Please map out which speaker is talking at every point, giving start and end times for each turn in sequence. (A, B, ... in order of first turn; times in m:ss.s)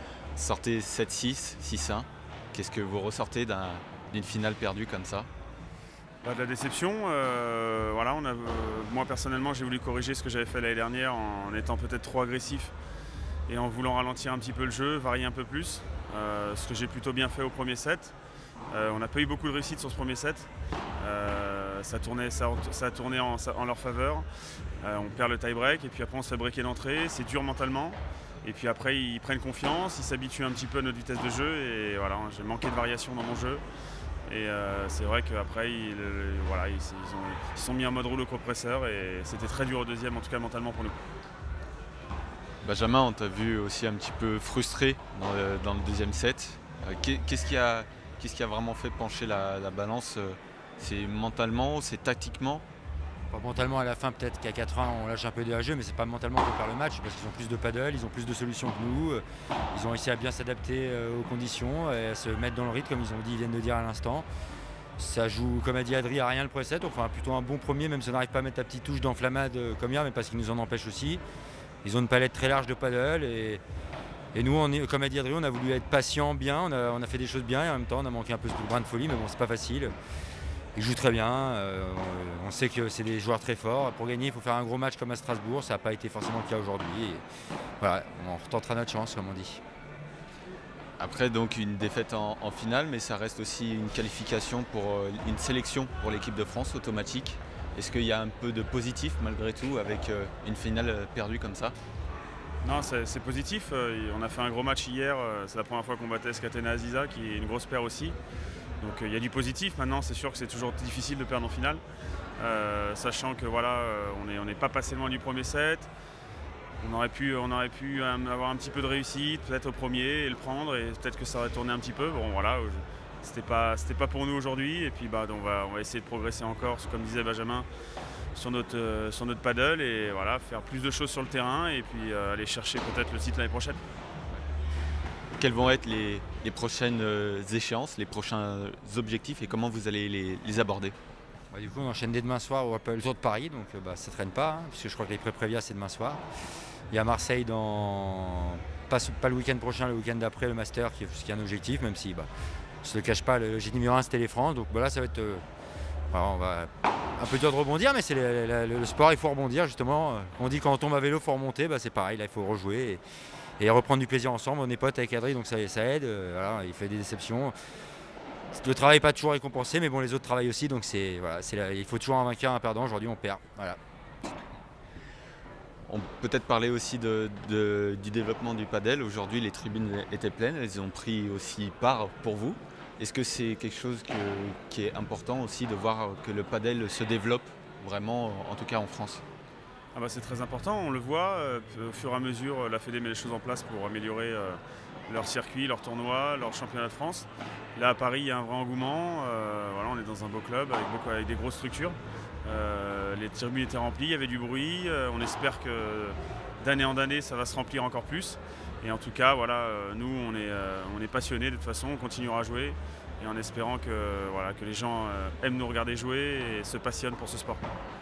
0:00.4-0:05.3 A
0:06.2-0:12.7 B
0:13.5-0:18.1 B
0:18.8-0:20.5 B
0:21.0-0:24.2 B
0:24.8-0:28.0 B
0:28.5-0:33.6 B
0:34.3-0:40.9 B
0:42.6-0:52.6 A
0:53.3-1:04.3 C
1:05.0-1:11.2 C
1:11.8-1:13.6 C
1:14.3-1:19.9 C
1:20.8-1:27.2 C
1:27.8-1:29.6 C
1:31.0-1:41.8 A
1:42.6-1:48.1 B
1:48.8-1:51.8 B
1:52.5-1:55.9 B
1:56.9-2:07.6 B
2:08.4-2:13.8 B
2:15.4-2:20.9 A
2:21.5-2:26.2 C
2:26.9-2:32.3 C
2:32.8-2:35.4 C
2:36.1-2:43.0 C
2:43.6-2:47.5 C
2:48.5-2:53.8 C
2:55.9-3:09.2 A
3:09.9-3:14.6 B
3:15.1-3:17.2 B
3:17.8-3:22.0 B
3:22.5-3:37.6 B